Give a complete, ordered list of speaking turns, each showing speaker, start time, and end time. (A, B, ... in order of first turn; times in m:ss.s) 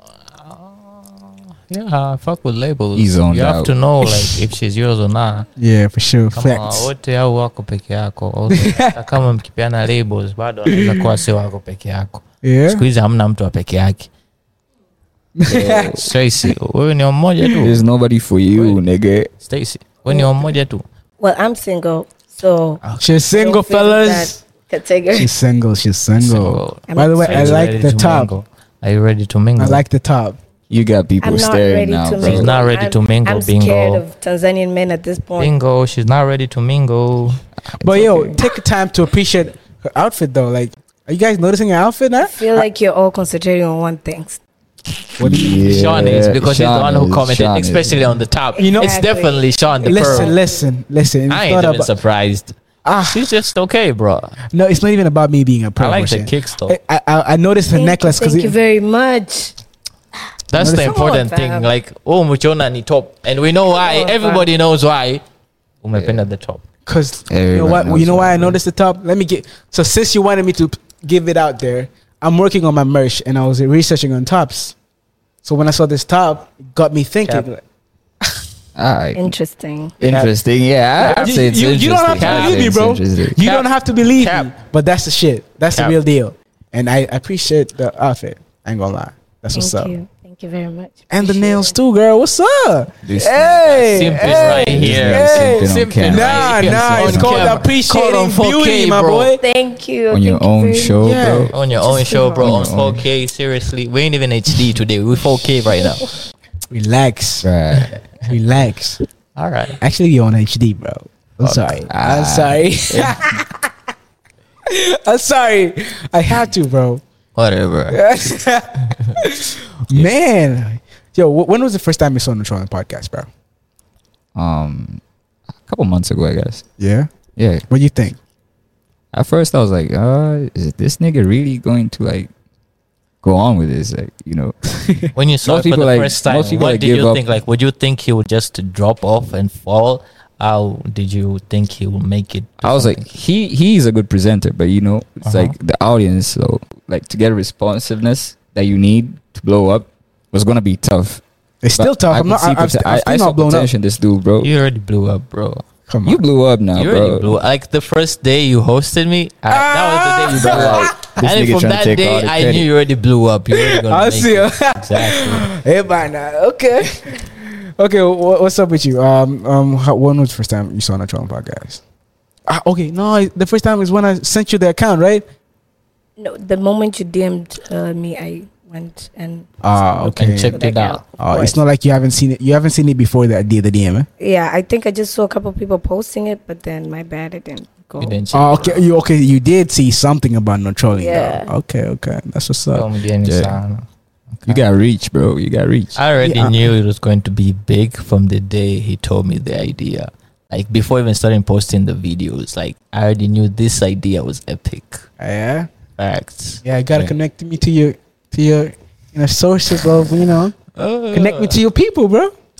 0:00.3-0:05.5 A
0:03.0-0:03.7 B
0:05.6-0:06.9 C
0:06.3-0:14.1 A
0:08.5-0:08.9 C
0:10.7-0:11.1 C
0:12.4-0:12.8 C
0:15.4-0:16.6 C
0:15.5-0:16.0 B
0:15.9-0:17.8 A
0:17.6-0:19.3 B
0:18.5-0:18.8 A
0:19.4-0:20.8 A
0:21.2-0:22.8 D
0:22.8-0:23.1 A
0:23.0-0:24.4 C
0:23.3-0:25.3 D
0:25.1-0:28.3 C
0:26.2-0:29.8 A
0:26.9-0:27.5 D
0:27.3-0:27.6 B
0:29.6-0:30.4 C
0:30.7-0:32.7 B
0:31.2-0:35.5 D
0:32.2-0:34.0 A
0:35.4-0:37.4 A
0:37.7-0:38.4 B
0:37.8-0:42.6 C
0:42.2-0:44.4 D
0:45.2-0:45.6 C
0:45.2-0:48.2 B
0:45.3-0:50.3 A
0:48.6-0:50.3 D
0:48.6-0:49.0 C
0:49.8-0:51.9 C
0:51.3-0:52.6 A
0:52.8-0:53.3 C
0:53.1-0:54.4 A
0:54.5-0:58.6 C
0:55.8-0:56.8 A
0:57.7-0:59.5 D
1:00.5-1:05.2 A
1:00.6-1:01.1 C
1:00.6-1:01.7 D
1:03.7-1:04.4 D
1:05.8-1:06.6 A
1:06.0-1:06.2 B
1:06.9-1:14.7 C
1:07.3-1:08.6 B
1:15.4-1:17.6 C
1:18.7-1:19.3 B
1:19.1-1:20.0 D
1:20.0-1:23.4 B
1:20.0-1:20.3 A
1:21.0-1:22.7 A
1:21.0-1:30.0 C
1:23.4-1:24.5 A
1:25.7-1:26.0 A
1:29.5-1:31.7 D
1:31.1-1:39.4 C
1:33.0-1:37.7 B
1:33.9-1:39.4 A
1:39.4-1:41.2 D
1:40.1-1:41.6 B
1:41.0-1:41.6 C
1:41.5-1:46.1 A
1:41.8-1:42.5 D
1:42.4-1:43.0 B
1:46.7-1:47.5 C
1:47.4-1:48.0 B
1:48.2-1:49.0 C
1:49.4-1:49.8 A
1:49.8-1:53.7 C
1:51.4-1:51.8 A
1:51.9-1:53.2 B
1:54.6-1:57.0 C
1:57.3-1:58.0 A
1:57.9-2:03.3 C
2:04.3-2:05.0 B
2:05.6-2:06.6 B
2:06.8-2:07.1 C
2:07.4-2:07.6 B
2:07.7-2:08.2 C
2:09.1-2:12.3 B
2:13.2-2:14.6 B
2:14.8-2:15.1 C
2:15.1-2:23.0 A
2:15.4-2:17.2 B
2:22.6-2:31.2 B
2:25.2-2:25.5 A
2:31.6-2:33.7 C
2:31.8-2:34.5 B
2:34.4-2:35.6 A
2:35.9-2:36.2 C
2:36.0-2:37.3 B
2:36.7-2:45.5 A
2:39.5-2:41.2 C
2:40.3-2:42.7 B
2:43.5-2:51.8 C
2:52.5-2:55.2 C
2:56.2-2:59.5 D
2:59.6-3:00.6 C
3:00.0-3:01.5 D
3:00.1-3:01.5 A
3:01.2-3:04.1 C
3:04.2-3:08.2 D
3:08.0-3:08.9 A
3:08.3-3:12.9 C
3:10.9-3:11.5 D
3:12.7-3:14.6 A
3:13.2-3:13.6 B
3:14.4-3:16.0 B
3:16.0-3:25.0 A
3:16.2-3:16.7 C
3:25.2-3:25.7 C
3:26.0-3:27.1 A
3:26.6-3:30.6 C
3:30.7-3:31.6 A
3:31.1-3:32.3 C